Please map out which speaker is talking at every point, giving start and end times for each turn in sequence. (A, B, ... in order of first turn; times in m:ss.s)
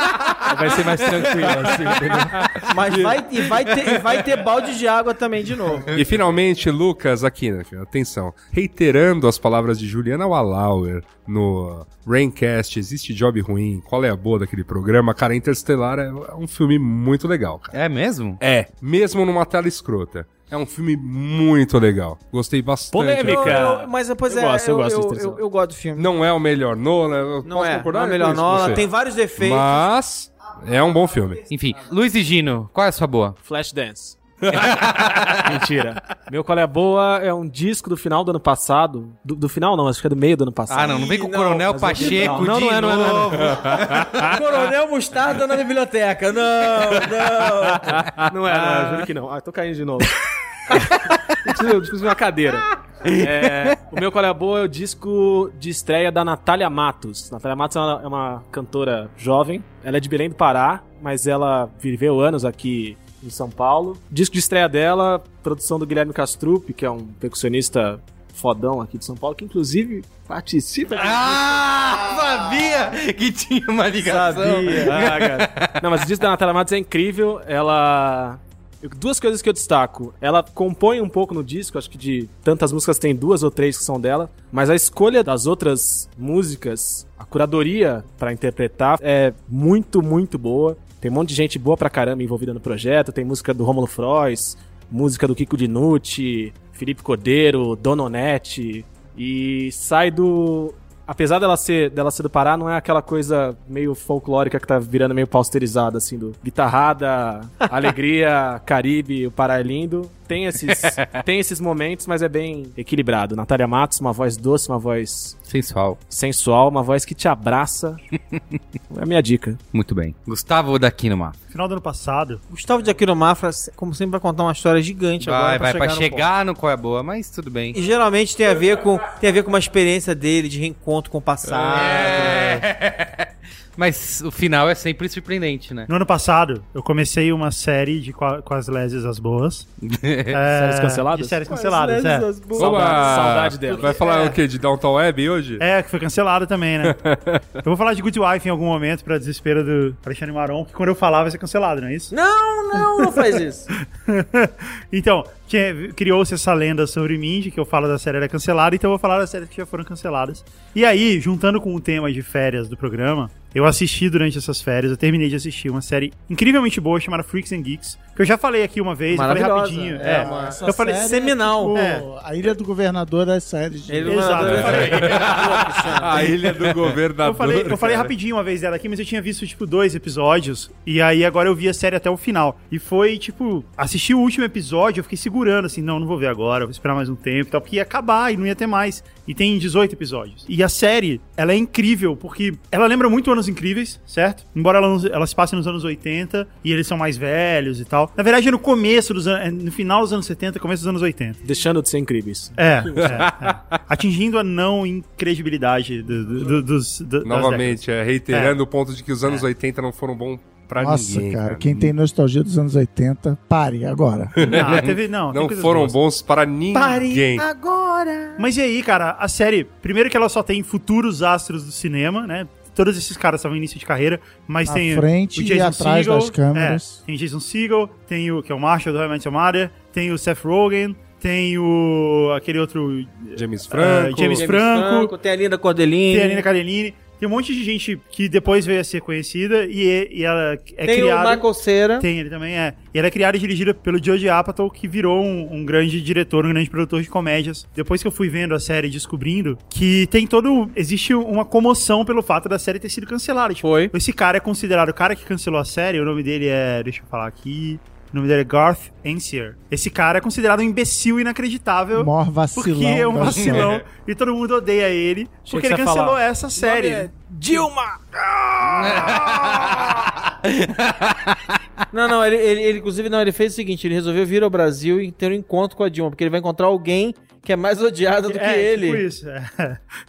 0:00.5-0:02.4 A
0:00.9-0:02.1 B
0:02.7-0:05.9 C
0:02.9-0:03.2 D
0:05.9-0:17.7 D
0:17.7-0:18.4 B
0:18.4-0:23.7 D
0:22.9-0:25.4 A
0:23.2-0:26.1 C
0:26.0-0:28.8 D
0:27.4-0:29.9 C
0:29.4-0:31.4 D
0:31.5-0:33.4 B
0:33.4-0:41.0 A
0:34.6-0:35.3 B
0:40.7-0:44.0 B
0:40.8-0:42.5 C
0:41.7-0:43.6 A
0:43.6-0:49.0 C
0:43.7-0:44.3 D
0:48.3-0:50.2 A
0:51.4-1:11.4 A
1:10.9-1:15.8 B
1:14.0-1:15.0 C
1:14.8-1:55.4 A
1:50.7-1:51.2 B
1:55.4-1:56.0 B
1:56.1-1:58.0 A
1:58.9-1:59.6 A
1:59.7-2:01.4 B
2:01.5-2:02.4 E
2:02.5-2:06.3 C
2:05.2-2:07.8 B
2:07.7-2:12.6 C
2:11.5-2:15.9 B
2:15.9-2:19.7 E
2:19.8-2:20.4 B
2:20.3-2:22.4 E
2:20.5-2:21.4 A
2:21.4-2:24.4 C
2:22.6-2:24.0 A
2:22.6-2:25.6 D
2:25.6-2:27.0 E
2:26.8-2:27.4 D
2:27.6-2:32.1 E
2:32.1-2:33.7 C
2:32.9-2:33.4 E
2:34.1-2:51.1 E
2:49.1-2:51.8 C
2:50.0-2:54.8 F
2:51.7-2:52.1 E
2:53.9-2:56.3 C
2:54.0-2:55.2 E
2:54.4-2:58.1 D
2:57.2-3:21.4 E
3:21.4-3:23.3 A
3:22.6-3:28.6 E
3:23.0-3:23.3 D
3:27.2-3:31.9 D
3:30.8-3:34.7 F
3:34.4-3:37.5 D
3:34.4-3:36.0 E
3:36.7-3:38.5 C
3:38.4-3:55.1 E
3:44.6-3:47.0 F
3:53.4-3:54.5 D
3:54.3-3:56.5 C
3:56.1-4:01.5 E
4:00.8-4:02.1 C
4:02.0-4:27.1 E
4:13.6-4:13.9 C
4:21.9-4:23.8 F
4:23.2-4:23.7 B
4:25.5-4:29.9 A
4:28.7-4:29.9 B
4:30.4-4:31.4 B
4:31.9-4:39.0 C
4:38.3-4:39.8 E